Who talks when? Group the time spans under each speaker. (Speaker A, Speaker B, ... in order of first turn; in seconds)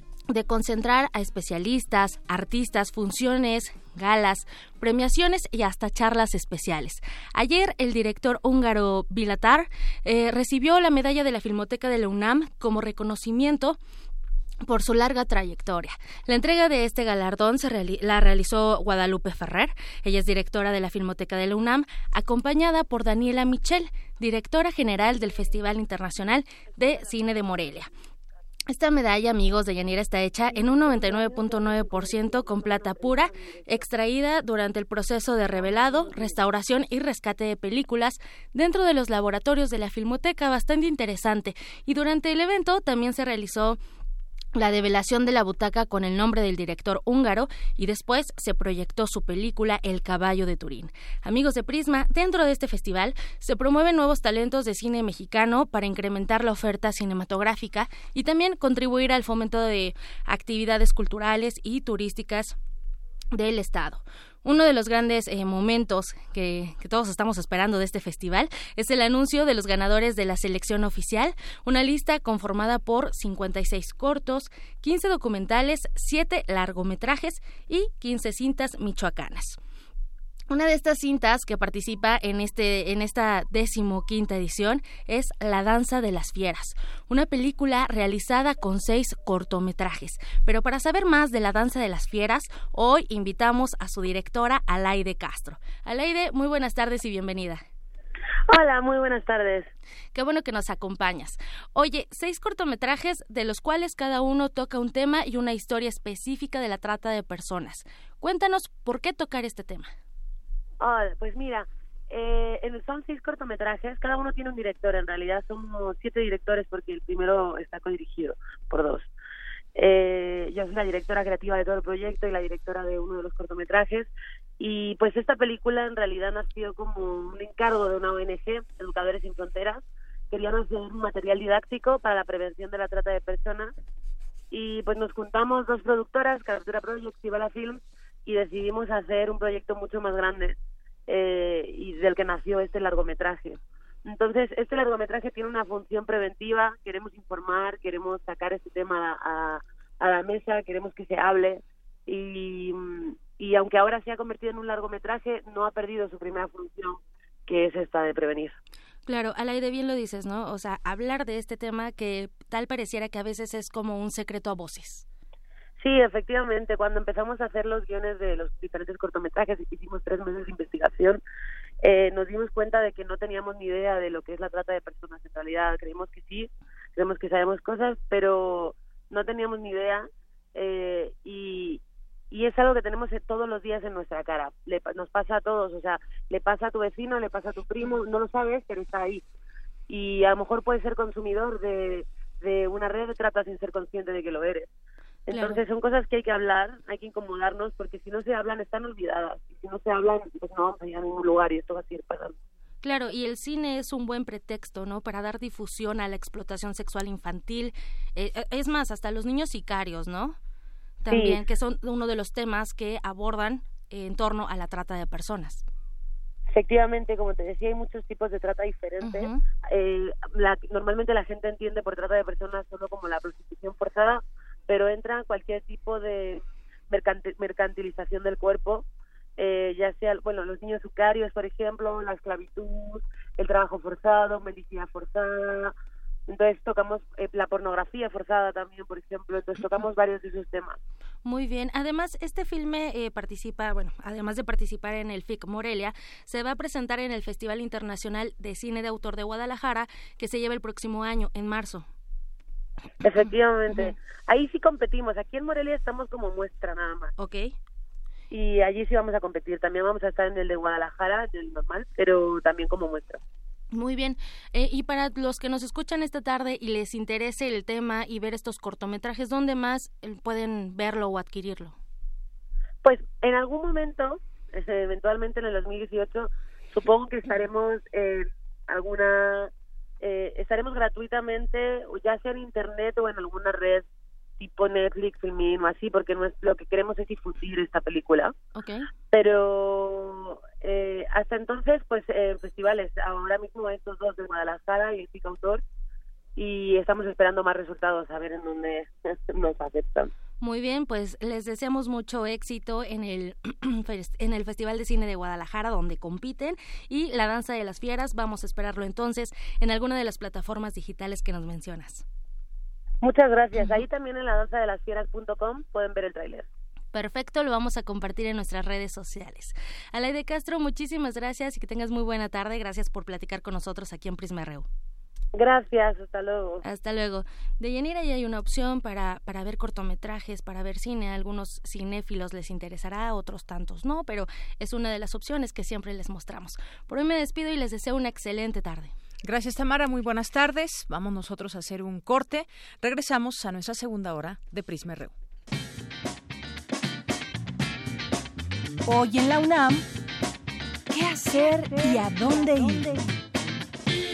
Speaker A: 0.3-13.8, 14.7-27.9, 28.7-43.8, 44.5-62.5, 63.3-79.6, 80.5-97.6, 100.1-109.9, 159.1-165.0, 195.3-195.6, 202.8-210.4, 211.0-215.6, 219.0-219.4, 241.2-251.9, 257.2-257.5, 263.7-271.8, 288.6-288.8, 300.4-312.0, 316.9-324.7, 326.6-338.9
Speaker B: 98.5-99.7, 110.8-119.1, 119.8-133.7, 134.5-140.5, 141.1-158.6, 165.8-171.2, 171.8-189.2, 189.9-194.7, 195.3-202.3, 211.1-211.4, 216.5-228.8, 229.4-235.7, 236.3-240.8, 253.0-257.1, 258.3-263.2, 272.8-279.5, 280.0-283.8, 284.4-288.3, 289.1-295.6, 296.4-300.1, 313.0-316.4, 325.3-326.6
Speaker C: 339.2-345.1
Speaker D: 348.9-349.8, 350.9-353.1